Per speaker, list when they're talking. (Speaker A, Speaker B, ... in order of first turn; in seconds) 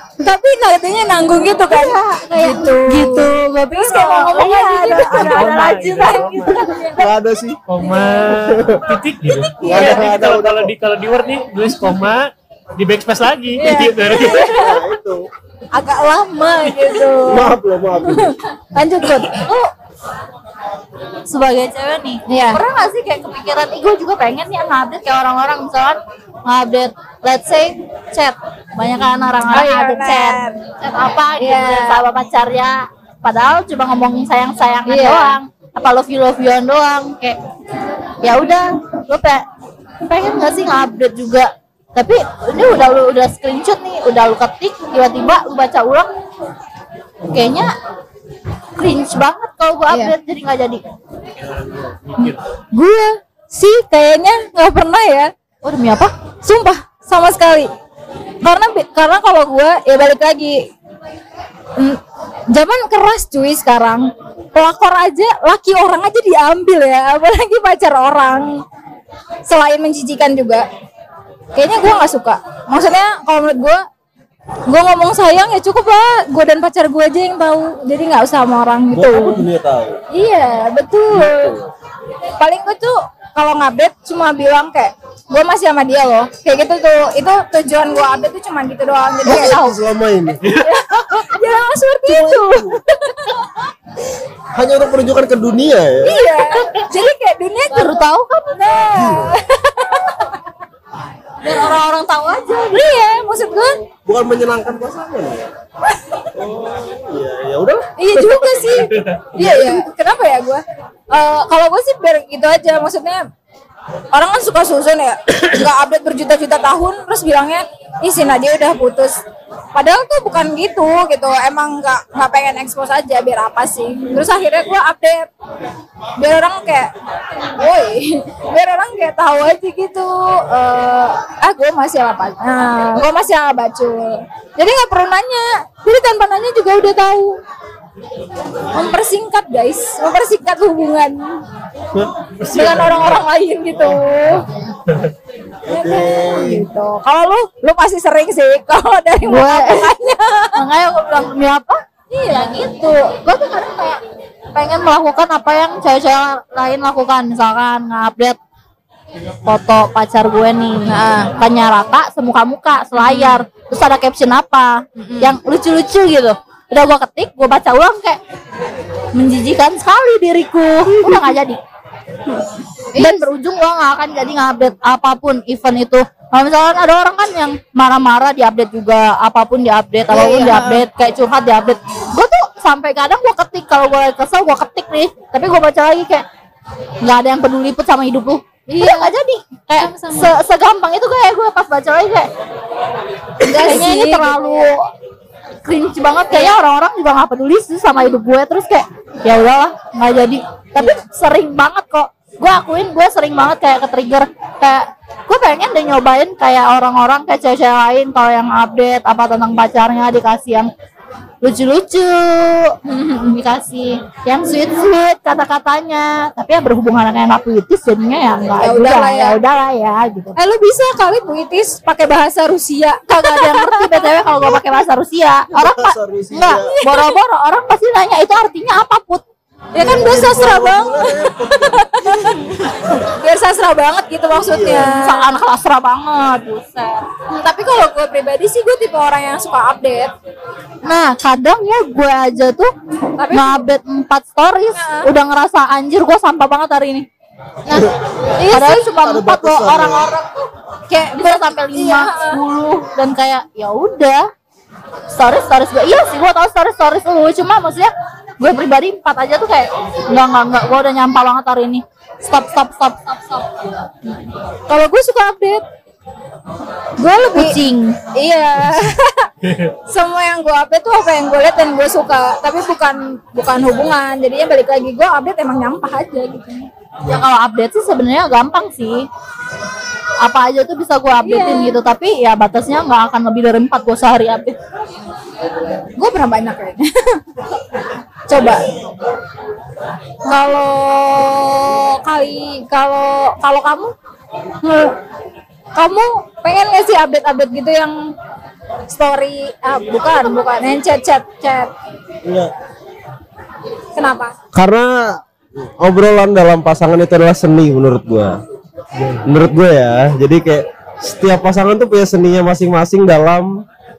Speaker A: 0.2-7.1, 9.6-10.0, 13.6-14.8, 15.7-19.4, 22.3-22.6, 29.5-30.6, 31.4-32.1, 34.9-35.4, 52.2-55.3, 56.4-57.7, 58.4-60.6, 61.8-62.0, 62.5-68.5, 69.5-70.7, 71.5-73.8, 74.7-79.4, 80.1-81.5, 82.4-89.6, 90.6-93.4, 96.0-100.3, 102.7-103.8, 108.0-113.2, 114.1-119.2, 119.8-125.3, 126.2-126.9, 127.6-137.4, 138.7-141.4, 142.5-144.5, 145.7-150.6, 152.1-152.9, 160.9-161.3, 163.0-163.4, 165.0-165.4, 172.9-173.3, 180.1-180.8, 188.7-189.1, 189.8-190.3, 193.4-194.7, 196.3-196.6, 200.8-201.0, 212.9-213.4, 218.6-219.4, 220.4-224.2, 226.6-227.1, 229.7-235.3, 237.3-240.1, 243.2-243.7, 244.8-245.1, 247.7-248.9, 250.9-252.4, 264.7-265.6, 267.0-267.6, 268.1-269.3, 269.9-276.7, 281.2-281.8, 286.0-287.2, 288.3-288.6, 290.2-293.9, 294.6-294.9, 295.8-298.0, 298.9-301.7, 304.0-304.3
Speaker B: 1.7-6.2, 19.4-19.7, 21.3-37.4, 38.2-39.5, 40.0-46.1, 47.3-47.7, 48.8-50.8, 55.6-56.1, 89.3-89.8, 96.6-96.9, 97.7-98.6, 101.4-102.9, 149.2-149.9, 150.6-154.0, 154.5-158.4, 159.4-168.2, 169.1-171.6, 173.0-186.2, 187.0-192.3, 193.4-194.9, 195.7-210.7, 211.4-220.3, 223.1-229.2, 234.8-237.1, 240.8-242.7, 243.3-247.1, 248.5-250.5, 251.1-254.3, 255.1-263.9, 267.3-268.0, 277.1-279.1, 280.2-284.6, 300.0-300.4
Speaker C: 4.8-6.6, 7.7-14.7, 51.4-52.4, 142.4-143.1, 269.4-269.7, 308.9-309.3
Speaker D: 6.3-7.6, 8.2-8.8, 9.6-10.7, 14.3-15.2, 17.2-18.4, 78.9-80.0, 81.1-81.7, 89.3-90.4, 92.1-92.8, 94.5-96.2, 98.9-99.3, 104.0-105.5, 106.3-108.6, 109.4-109.9, 145.7-146.7, 225.5-226.7, 229.8-232.4, 234.4-234.9, 248.9-250.1, 302.2-302.5, 304.5-305.2, 305.8-308.4, 309.3-313.6